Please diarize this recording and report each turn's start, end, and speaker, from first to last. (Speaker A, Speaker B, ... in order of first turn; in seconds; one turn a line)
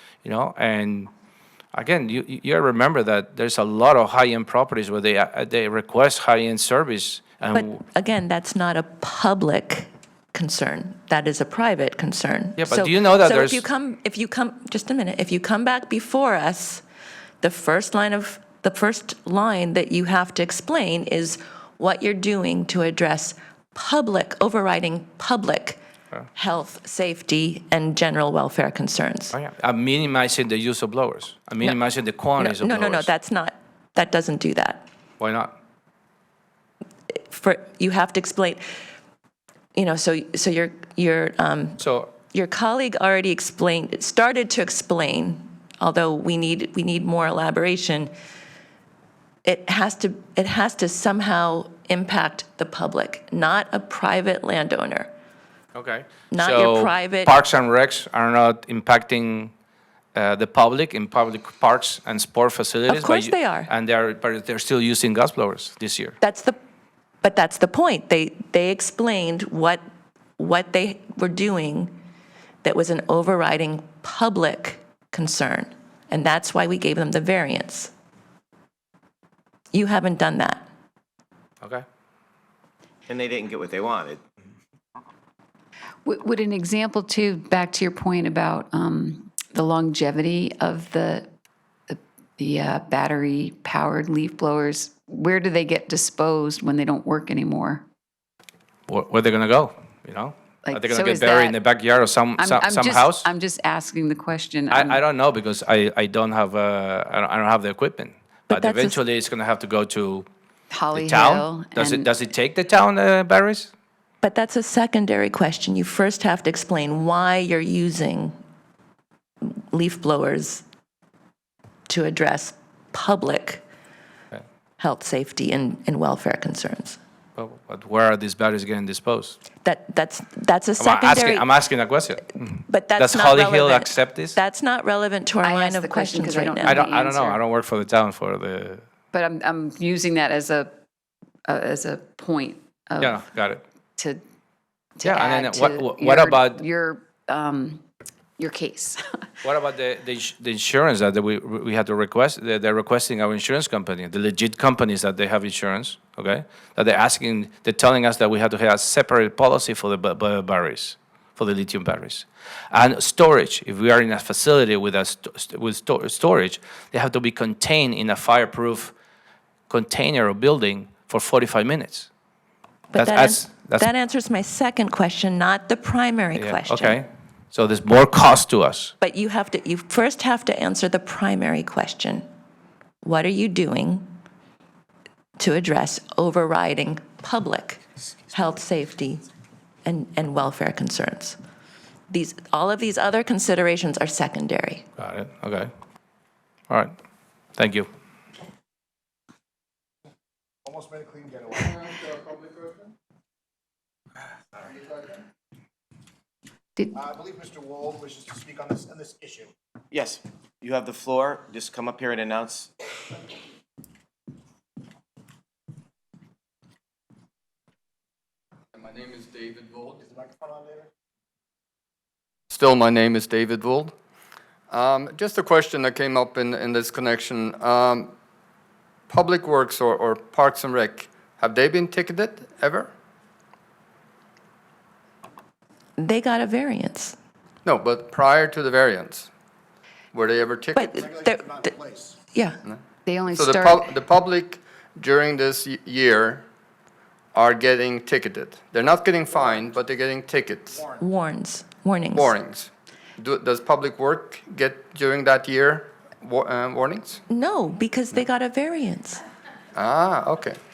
Speaker A: 0.2-1.1
Speaker A: 1.7-7.8
Speaker B: 7.5-16.8
Speaker A: 12.6-13.6
Speaker B: 17.4-25.8
Speaker B: 26.4-29.3
Speaker A: 29.3-33.1
Speaker B: 32.4-34.9
Speaker A: 35.2-35.5
Speaker B: 37.2-38.6
Speaker B: 39.7-48.1
Speaker A: 41.8-42.1
Speaker B: 49.4-55.1
Speaker A: 55.7-59.5
Speaker B: 56.3-57.4
Speaker A: 60.1-66.2
Speaker B: 62.9-63.7
Speaker B: 66.2-66.5
Speaker B: 67.2-69.8
Speaker B: 70.4-72.0
Speaker B: 72.6-77.9
Speaker B: 79.7-80.6
Speaker C: 86.0-91.3
Speaker C: 91.9-97.8
Speaker A: 98.9-103.3
Speaker C: 100.6-101.6
Speaker C: 102.4-105.0
Speaker A: 104.7-110.3
Speaker B: 108.5-109.0
Speaker C: 110.7-112.1
Speaker A: 110.9-113.7
Speaker B: 114.2-118.3
Speaker B: 119.4-120.6
Speaker B: 121.9-123.6
Speaker B: 124.8-127.0
Speaker A: 127.4-129.4
Speaker B: 129.6-131.5
Speaker A: 130.8-134.3
Speaker B: 132.7-136.8
Speaker C: 135.4-137.4
Speaker A: 136.6-138.8
Speaker C: 139.1-140.7
Speaker C: 141.4-143.2
Speaker A: 143.0-143.6
Speaker C: 145.0-147.8
Speaker A: 145.0-146.6
Speaker C: 148.4-149.0
Speaker A: 149.4-168.9
Speaker A: 169.7-172.1
Speaker B: 172.9-177.0
Speaker A: 172.9-173.9
Speaker A: 176.3-178.9
Speaker B: 179.0-182.2
Speaker B: 183.0-184.1
Speaker B: 185.4-189.2
Speaker B: 189.8-191.4
Speaker B: 192.1-194.8
Speaker A: 195.0-195.7
Speaker A: 197.6-197.9
Speaker D: 200.6-201.9
Speaker E: 201.9-202.6
Speaker D: 204.6-205.1
Speaker D: 206.9-209.5
Speaker F: 209.9-212.7
Speaker E: 218.7-220.0
Speaker D: 220.0-220.9
Speaker E: 222.5-223.9
Speaker E: 224.7-228.1
Speaker E: 229.1-232.9
Speaker B: 236.0-237.2
Speaker E: 237.6-239.3
Speaker E: 240.1-240.9
Speaker B: 240.7-241.7
Speaker D: 240.8-242.2
Speaker B: 242.3-242.6
Speaker C: 243.1-243.9
Speaker E: 243.3-246.4
Speaker E: 247.3-250.8
Speaker D: 249.3-249.7
Speaker D: 250.7-251.0
Speaker B: 251.0-252.3
Speaker E: 252.1-257.2
Speaker B: 257.3-259.2
Speaker E: 259.7-260.6